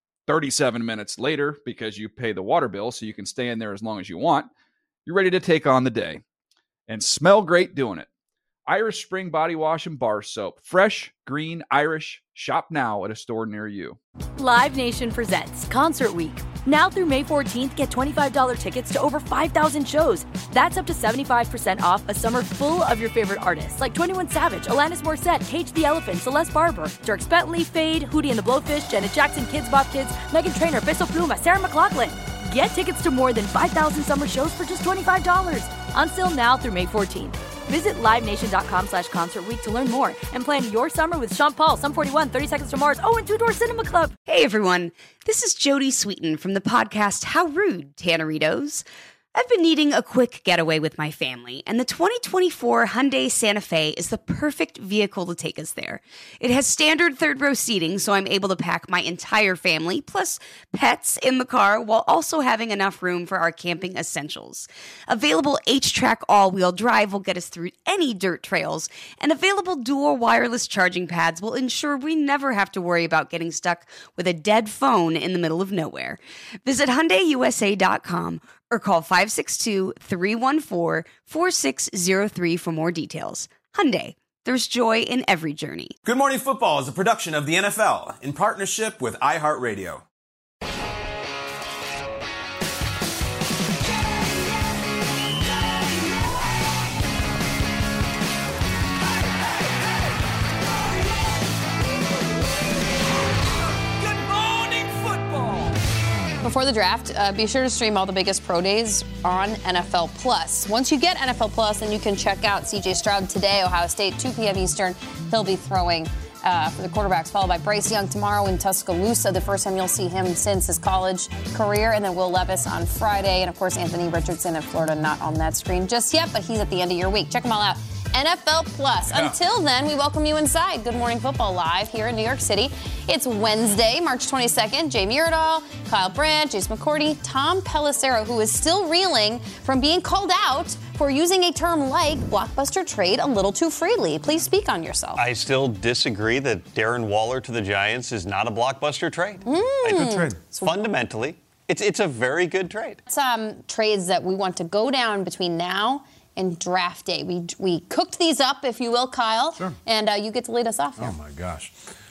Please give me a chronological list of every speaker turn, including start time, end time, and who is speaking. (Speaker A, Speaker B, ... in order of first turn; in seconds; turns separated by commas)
Speaker A: 0.3-4.5, Speaker A: 5.0-6.2, Speaker A: 6.9-8.1, Speaker A: 8.7-14.0, Speaker B: 14.4-44.1, Speaker C: 44.3-85.9, Speaker D: 86.0-90.0, Speaker E: 106.4-145.2, Speaker F: 145.2-153.0, Speaker E: 149.5-150.9, Speaker D: 149.9-150.4, Speaker E: 153.1-161.2, Speaker D: 161.0-161.8